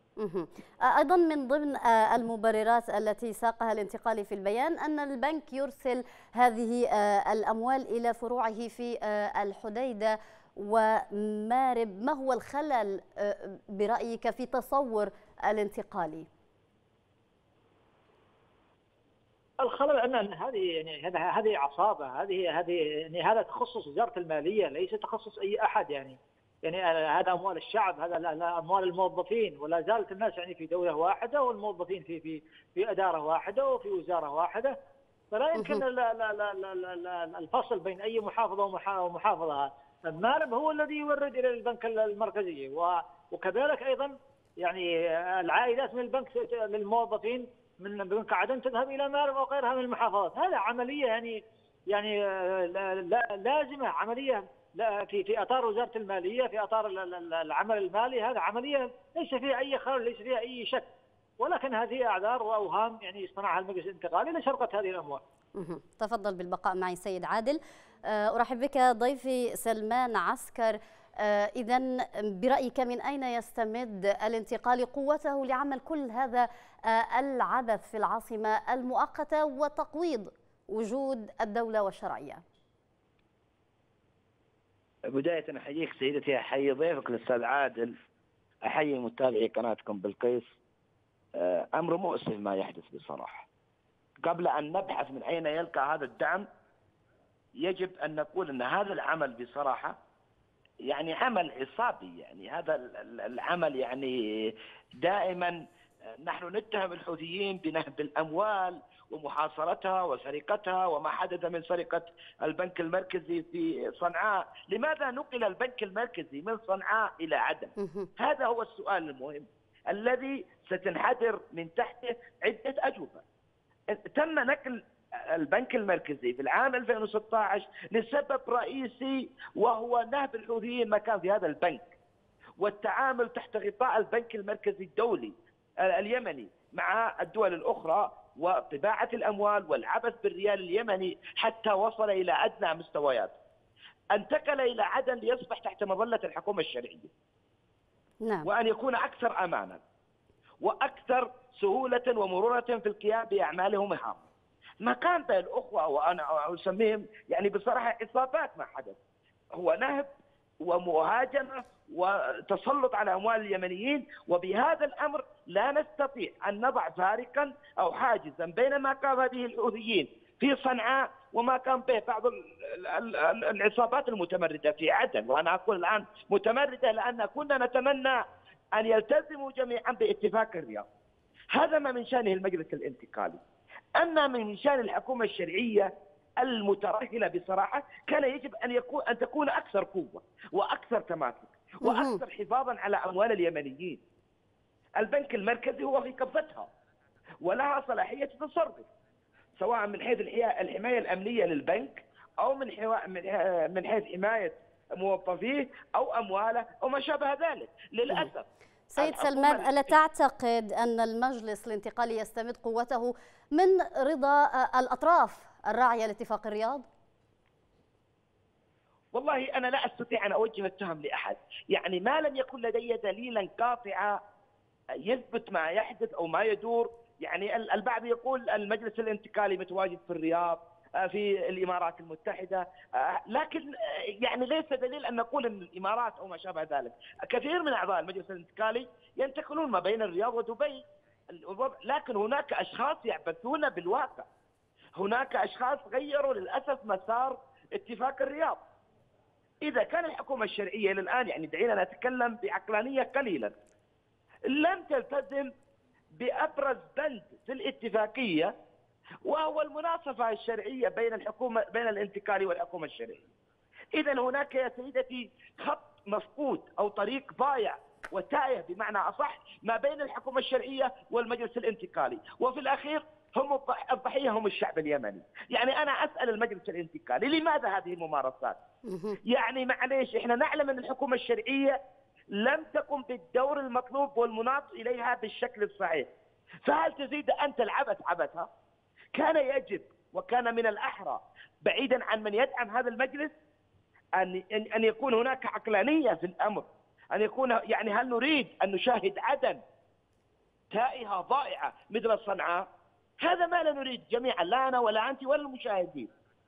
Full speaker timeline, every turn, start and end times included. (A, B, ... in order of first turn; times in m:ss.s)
0:00.2-0:16.3 A
0:19.6-0:34.8 B
0:35.3-1:00.9 B
0:35.6-0:35.8 A
1:01.4-1:05.2 B
1:05.6-1:22.4 A
1:25.1-1:28.0 C
1:28.6-1:30.5 C
1:31.3-1:33.4 C
1:34.2-1:36.5 C
1:37.5-1:40.0 C
1:40.8-1:45.6 C
1:46.2-2:03.2 C
1:57.8-1:58.1 A
2:03.9-2:11.9 C
2:12.6-2:23.3 C
2:24.1-2:27.1 C
2:28.4-2:29.8 C
2:30.6-2:34.2 C
2:34.8-2:39.0 C
2:39.5-2:40.1 C
2:40.6-3:00.8 C
3:01.5-3:03.4 C
3:04.0-3:14.0 C
3:11.8-3:12.2 A
3:15.0-3:16.7 C
3:17.4-3:18.9 C
3:19.6-3:29.7 C
3:28.9-3:36.8 A
3:39.1-3:44.2 C
3:45.0-4:04.2 C
4:05.0-4:08.6 C
4:09.6-4:13.5 C
4:14.5-4:15.5 C
4:16.1-4:18.5 C
4:19.2-4:23.2 C
4:23.9-4:38.6 C
4:38.9-4:39.2 A
4:39.2-4:41.8 C
4:42.3-4:46.1 C
4:46.6-4:48.5 C
4:49.1-4:53.3 C
4:54.2-4:59.6 C
5:00.7-5:02.6 C
5:03.2-5:06.1 C